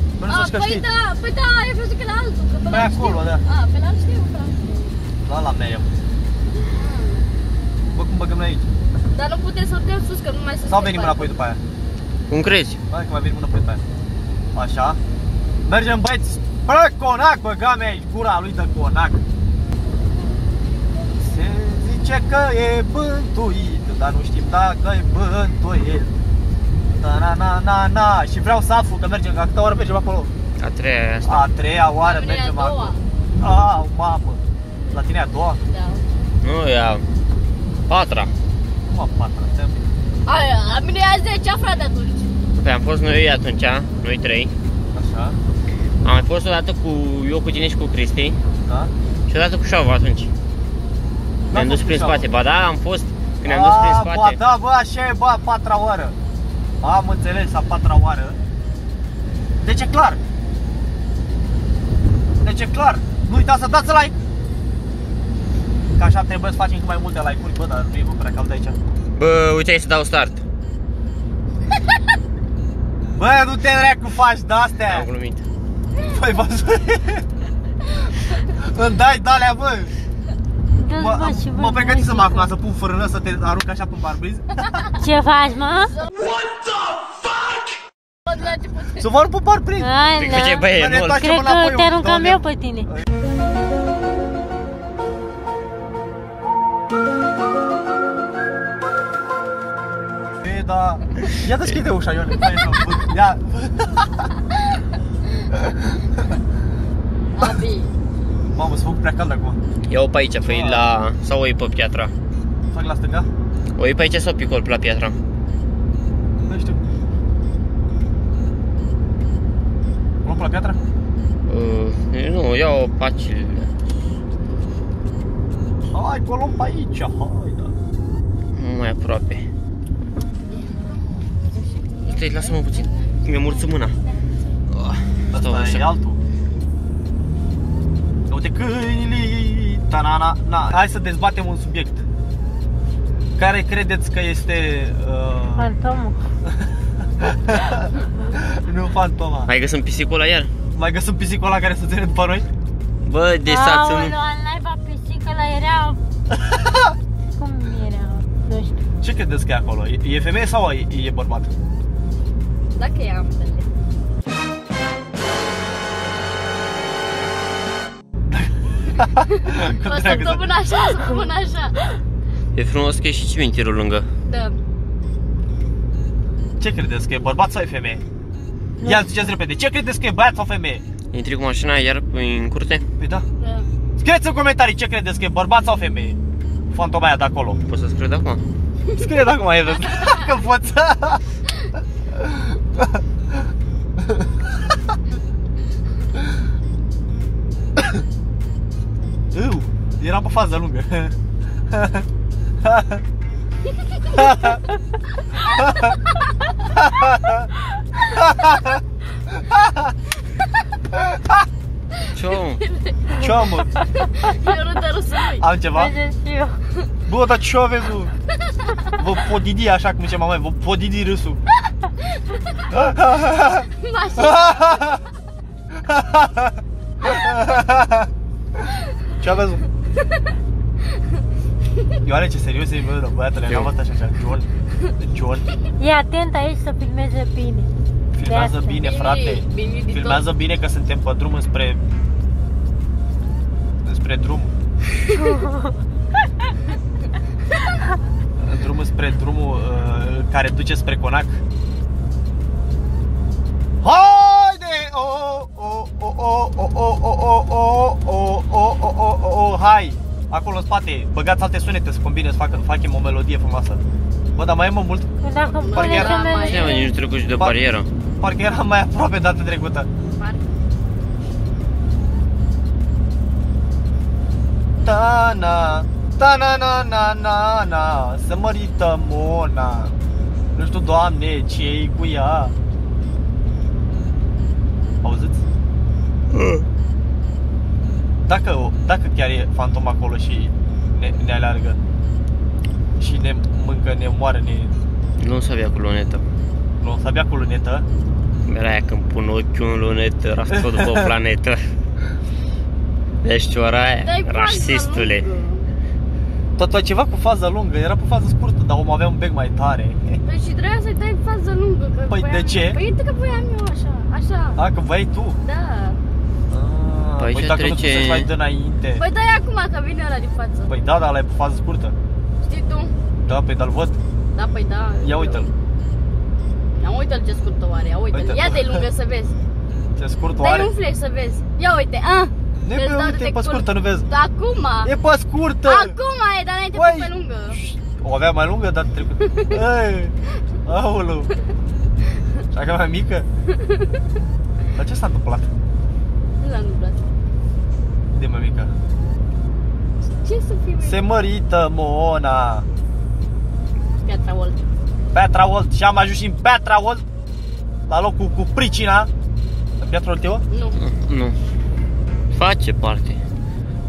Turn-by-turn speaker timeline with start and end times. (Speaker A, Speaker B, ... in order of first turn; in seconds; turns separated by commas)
Speaker A: 0.2-0.8, Speaker B: 0.3-5.0, Speaker A: 2.7-3.5, Speaker A: 5.2-5.9, Speaker B: 6.5-7.3, Speaker A: 7.9-8.7, Speaker B: 9.1-11.3, Speaker A: 10.7-11.6, Speaker C: 12.3-12.8, Speaker A: 12.9-13.8, Speaker A: 14.6-15.0, Speaker A: 15.7-19.2, Speaker A: 21.2-26.1, Speaker A: 26.9-30.3, Speaker C: 30.6-31.5, Speaker A: 31.2-35.6, Speaker B: 32.0-33.0, Speaker B: 35.6-36.1, Speaker C: 36.4-37.0, Speaker C: 37.9-38.3, Speaker A: 38.9-39.9, Speaker B: 40.3-42.3, Speaker C: 42.6-44.5, Speaker A: 44.9-45.4, Speaker C: 46.0-48.4, Speaker A: 48.7-48.9, Speaker C: 49.3-50.3, Speaker A: 51.5-52.3, Speaker C: 51.5-54.4, Speaker A: 53.5-56.2, Speaker A: 56.8-58.4, Speaker A: 59.6-60.2, Speaker A: 62.4-64.2, Speaker A: 66.0-68.8, Speaker C: 69.2-70.4, Speaker A: 73.2-75.1, Speaker C: 74.9-75.4, Speaker A: 76.0-77.2, Speaker A: 78.4-79.9, Speaker D: 80.8-82.5, Speaker A: 80.9-84.9, Speaker D: 84.9-86.0, Speaker B: 88.3-89.0, Speaker A: 89.0-89.9, Speaker D: 89.8-92.9, Speaker C: 90.2-91.2, Speaker A: 90.7-93.1, Speaker A: 100.4-104.3, Speaker B: 107.3-108.0, Speaker A: 108.5-109.6, Speaker C: 109.9-112.1, Speaker A: 110.4-110.9, Speaker A: 112.7-113.3, Speaker C: 113.8-115.2, Speaker A: 116.5-116.8, Speaker A: 120.2-120.8, Speaker C: 121.5-123.7, Speaker A: 125.9-127.8, Speaker C: 128.5-129.5, Speaker B: 130.5-130.9, Speaker B: 131.8-133.0, Speaker C: 132.0-134.0, Speaker C: 134.7-135.9, Speaker A: 135.3-136.2, Speaker A: 138.3-142.0, Speaker A: 143.4-145.7, Speaker D: 145.6-146.2, Speaker A: 147.2-149.5, Speaker C: 149.5-150.5, Speaker A: 150.7-152.5, Speaker C: 153.0-154.2, Speaker D: 153.5-156.0, Speaker D: 157.4-158.8, Speaker A: 159.0-161.5, Speaker B: 162.8-163.7, Speaker A: 168.3-170.4, Speaker B: 169.6-171.8, Speaker C: 172.5-174.1, Speaker B: 174.3-174.6, Speaker A: 176.6-178.0, Speaker A: 178.8-180.8, Speaker C: 181.1-182.8, Speaker A: 183.0-183.2, Speaker B: 183.4-183.7, Speaker A: 184.0-186.2, Speaker A: 186.7-187.6, Speaker C: 187.7-188.4, Speaker A: 188.9-191.2, Speaker A: 192.2-193.0, Speaker A: 199.3-201.2, Speaker A: 201.7-202.1, Speaker A: 202.6-203.0, Speaker A: 204.1-204.6, Speaker A: 205.6-205.9, Speaker A: 206.7-207.5, Speaker A: 208.0-208.8, Speaker A: 209.3-209.9, Speaker A: 210.9-211.2, Speaker C: 212.1-212.6, Speaker A: 213.1-213.7, Speaker D: 213.8-214.1, Speaker B: 214.2-215.4, Speaker A: 215.4-215.9, Speaker D: 215.7-216.6, Speaker A: 217.1-218.1, Speaker A: 219.0-221.4, Speaker A: 222.7-223.7, Speaker B: 223.8-225.0, Speaker A: 224.2-225.0, Speaker A: 225.8-228.1, Speaker A: 229.2-229.6, Speaker A: 232.0-235.5, Speaker D: 235.8-237.7, Speaker A: 238.2-241.8, Speaker D: 238.2-238.8, Speaker B: 238.8-240.2, Speaker A: 243.8-244.5, Speaker D: 245.1-245.7, Speaker A: 248.4-251.4, Speaker A: 253.8-263.8, Speaker A: 264.4-266.2, Speaker D: 265.2-266.9, Speaker B: 265.6-266.9, Speaker C: 266.3-267.9, Speaker A: 268.2-269.9, Speaker B: 270.2-270.5, Speaker A: 274.8-279.9, Speaker A: 280.5-282.6, Speaker A: 285.0-285.4, Speaker A: 288.3-291.8, Speaker A: 293.0-294.8, Speaker C: 295.2-296.2, Speaker A: 296.8-297.9, Speaker C: 298.4-301.6, Speaker A: 300.5-301.1, Speaker C: 303.2-305.3, Speaker B: 304.0-305.7, Speaker A: 306.6-310.2, Speaker B: 310.3-314.6, Speaker A: 312.1-312.8, Speaker A: 314.6-315.4, Speaker B: 315.4-316.0, Speaker A: 316.5-319.0, Speaker C: 317.2-318.3, Speaker B: 318.9-320.7, Speaker A: 320.7-321.9, Speaker B: 322.4-322.9, Speaker A: 323.2-324.0, Speaker B: 324.3-325.5, Speaker A: 325.0-325.5, Speaker B: 326.7-329.4, Speaker A: 328.1-328.8, Speaker A: 330.0-330.7, Speaker B: 330.4-334.9, Speaker A: 332.6-334.1, Speaker A: 334.8-335.9, Speaker B: 335.6-337.6, Speaker A: 336.7-340.1, Speaker A: 340.7-341.3, Speaker A: 342.5-343.3, Speaker A: 344.8-345.5, Speaker B: 346.4-347.0, Speaker A: 348.1-348.7, Speaker B: 350.2-351.1, Speaker A: 350.8-352.7, Speaker B: 354.0-354.6, Speaker A: 355.1-357.0, Speaker A: 357.9-359.1, Speaker A: 359.8-360.4, Speaker B: 360.5-360.8, Speaker C: 360.8-361.4, Speaker C: 362.3-363.2